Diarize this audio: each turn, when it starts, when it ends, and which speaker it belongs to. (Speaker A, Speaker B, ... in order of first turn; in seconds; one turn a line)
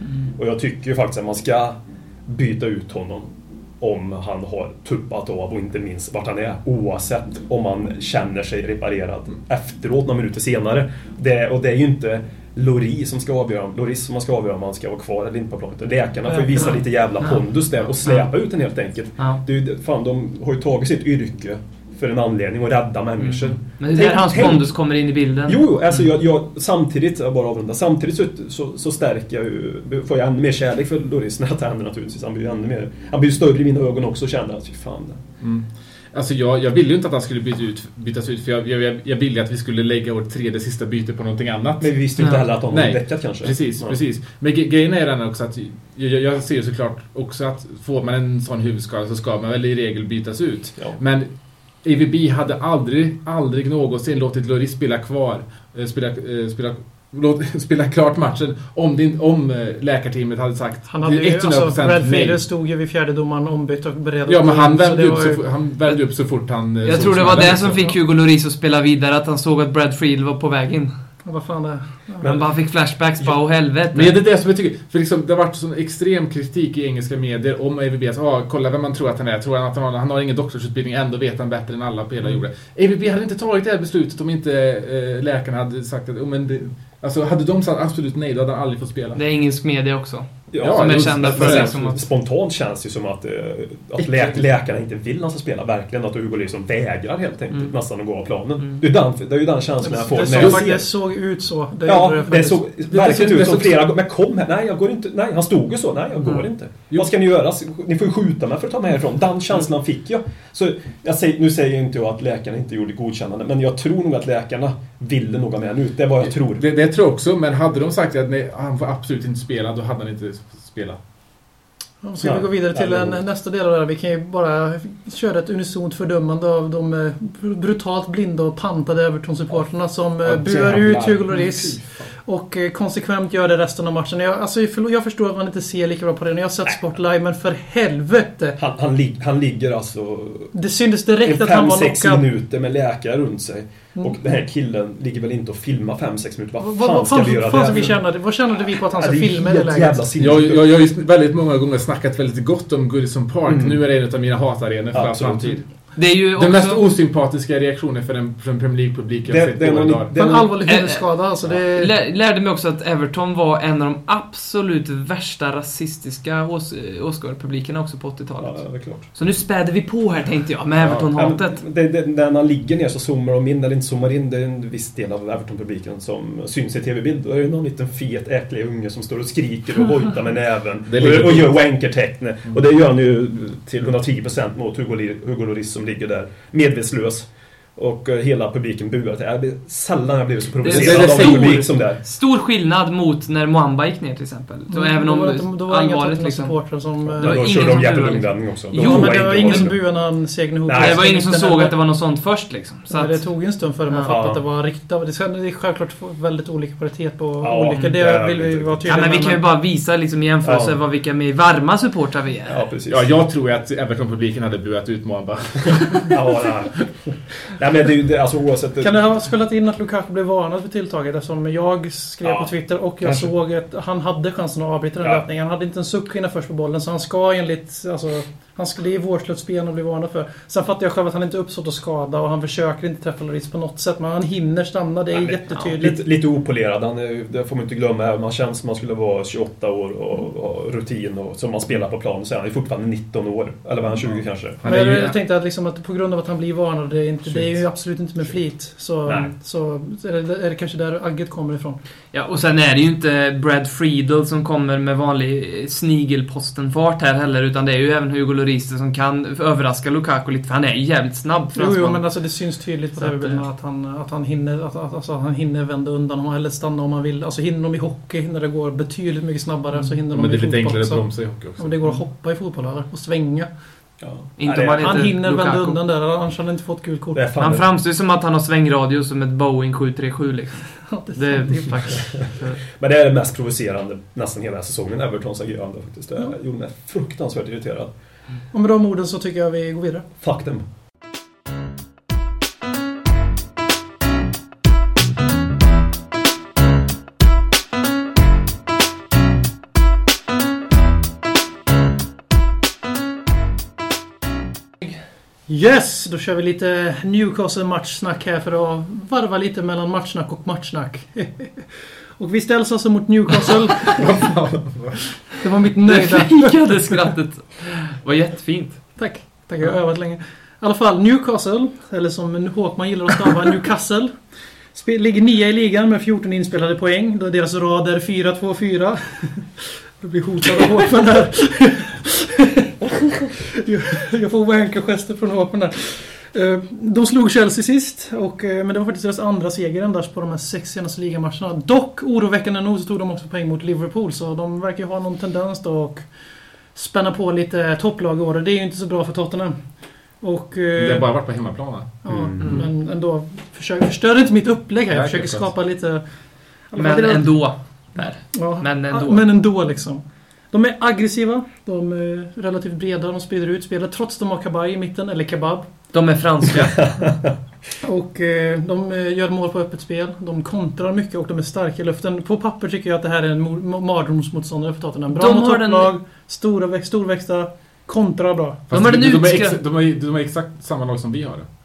Speaker A: 0.3-24.8
Speaker B: 16.3-16.6
Speaker C: 16.6-17.4
Speaker C: 18.0-18.3
Speaker C: 23.2-26.0
Speaker A: 25.4-35.2
Speaker D: 35.4-62.4
Speaker A: 41.8-44.0
Speaker C: 42.2-42.5
Speaker B: 60.9-65.5
Speaker D: 64.3-67.9
Speaker C: 65.9-66.2
Speaker C: 66.8-70.9
Speaker B: 71.2-72.2
Speaker A: 72.2-72.5
Speaker C: 72.2-74.1
Speaker D: 73.9-89.2
Speaker C: 89.1-92.0
Speaker A: 90.5-101.0
Speaker D: 90.6-92.0
Speaker C: 94.0-94.4
Speaker C: 98.6-98.8
Speaker B: 99.8-102.6
Speaker D: 100.3-100.7
Speaker A: 101.8-116.6
Speaker D: 102.9-103.9
Speaker D: 116.2-121.0
Speaker B: 122.0-138.6
Speaker A: 122.2-123.2
Speaker A: 129.5-131.8
Speaker D: 131.3-132.1
Speaker A: 138.6-140.5
Speaker B: 140.5-142.2
Speaker A: 141.2-148.1
Speaker B: 146.6-150.0
Speaker A: 148.9-150.7
Speaker D: 150.2-160.1
Speaker A: 153.5-153.8
Speaker A: 154.9-155.6
Speaker C: 155.9-156.8
Speaker A: 159.2-160.9
Speaker B: 160.1-161.9
Speaker C: 160.7-171.6
Speaker A: 168.4-169.1
Speaker D: 170.8-171.1
Speaker A: 171.1-192.0
Speaker D: 180.9-181.8
Speaker C: 190.6-196.6
Speaker D: 190.6-191.6
Speaker B: 194.7-197.9
Speaker A: 197.2-199.9
Speaker C: 197.2-199.7
Speaker B: 198.7-201.8
Speaker A: 200.7-201.0
Speaker C: 200.8-203.3
Speaker B: 202.9-209.4
Speaker C: 203.9-204.2
Speaker A: 204.1-204.4
Speaker A: 207.4-209.0
Speaker C: 208.8-212.6
Speaker A: 210.4-210.8
Speaker A: 212.5-213.1
Speaker D: 212.9-216.4
Speaker A: 216.1-219.0
Speaker B: 218.8-236.1
Speaker A: 222.2-223.3
Speaker A: 235.1-244.6
Speaker D: 244.0-245.2
Speaker B: 244.6-251.8
Speaker D: 247.3-247.6
Speaker A: 249.1-249.3
Speaker C: 252.1-262.2
Speaker B: 261.5-273.5
Speaker C: 263.0-263.4
Speaker D: 270.1-271.9
Speaker A: 274.0-275.1
Speaker C: 274.4-275.8
Speaker B: 274.7-277.2
Speaker A: 277.1-277.7
Speaker C: 277.4-282.6
Speaker B: 280.8-282.2
Speaker A: 282.8-287.9
Speaker B: 288.5-290.1
Speaker A: 290.2-290.6
Speaker B: 305.5-314.3
Speaker D: 313.9-315.3
Speaker B: 315.4-317.0
Speaker C: 315.9-319.1
Speaker B: 318.9-332.6
Speaker B: 333.4-346.1
Speaker B: 346.7-351.5
Speaker D: 350.8-352.0
Speaker B: 352.0-365.7
Speaker A: 352.1-352.7
Speaker C: 352.4-352.6
Speaker D: 354.9-355.5
Speaker C: 356.8-359.4
Speaker C: 365.9-367.2
Speaker B: 367.8-378.6
Speaker C: 375.1-375.9
Speaker D: 378.7-381.4
Speaker C: 378.7-379.6